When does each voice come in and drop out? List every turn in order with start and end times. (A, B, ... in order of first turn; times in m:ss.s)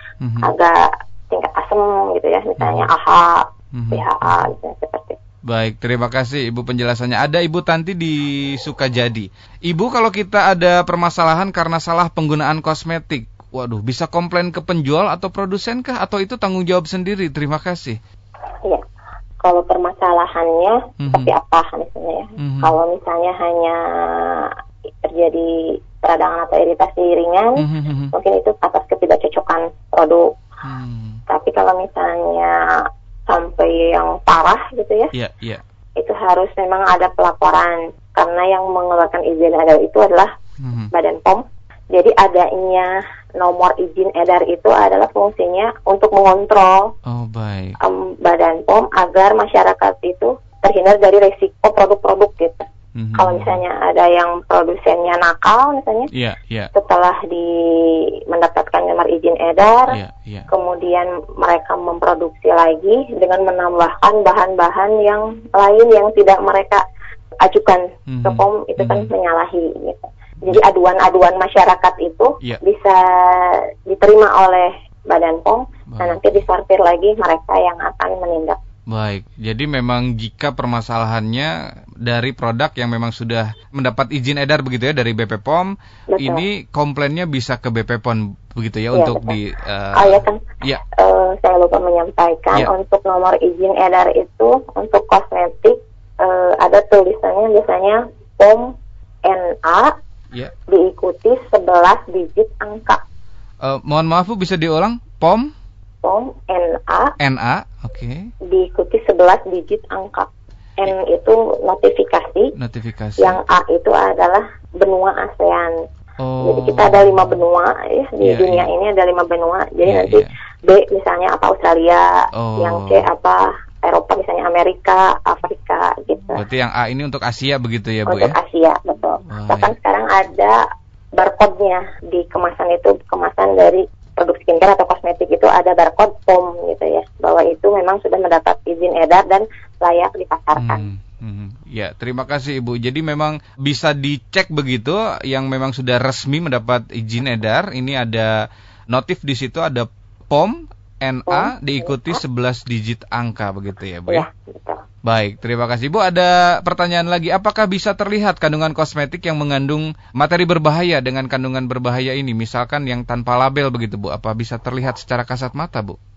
0:00.2-0:00.5 A
0:00.4-0:05.2 B
0:02.6-0:02.9 A
0:03.7-0:04.5 A
0:05.4-0:18.0 A
0:19.4-0:24.5 B
0:21.0-0:21.3 A
0:22.4-0:22.7 A
0:25.0-0:30.3 B
0:27.6-0:28.1 A
0:30.6-0:31.2 A
0:31.3-0:32.6 B
0:33.3-0:35.1 B
0:35.1-0:35.6 A
0:36.0-0:40.3 B
0:40.6-0:40.9 A
0:40.9-0:46.9 B
0:47.0-0:47.8 A
0:47.8-0:56.1 B
0:53.0-0:53.6 A
0:56.1-0:56.7 A
0:56.7-1:00.0 B
0:59.9-1:00.5 A
1:00.5-1:06.8 B
1:07.4-1:18.6 B
1:08.1-1:09.1 A
1:15.9-1:16.4 A
1:18.9-1:30.8 A
1:26.1-1:26.4 B
1:28.9-1:29.4 B
1:29.9-1:38.7 B
1:39.2-1:39.9 B
1:40.7-1:43.0 B
1:43.6-1:45.5 A
1:46.0-1:47.1 B
1:47.2-1:48.3 A
1:48.4-1:52.5 B
1:52.6-1:53.4 A
1:53.2-1:55.7 B
1:56.2-1:57.4 A
1:56.4-2:06.4 B
1:58.2-1:58.7 A
1:59.8-2:00.3 A
2:02.4-2:03.0 A
2:06.3-2:08.4 A
2:08.1-2:10.6 B
2:09.3-2:09.7 A
2:11.1-2:20.8 B
2:20.5-2:28.3 A
2:28.9-2:34.2 A
2:31.3-2:32.2 B
2:34.1-2:34.8 B
2:35.0-2:46.0 A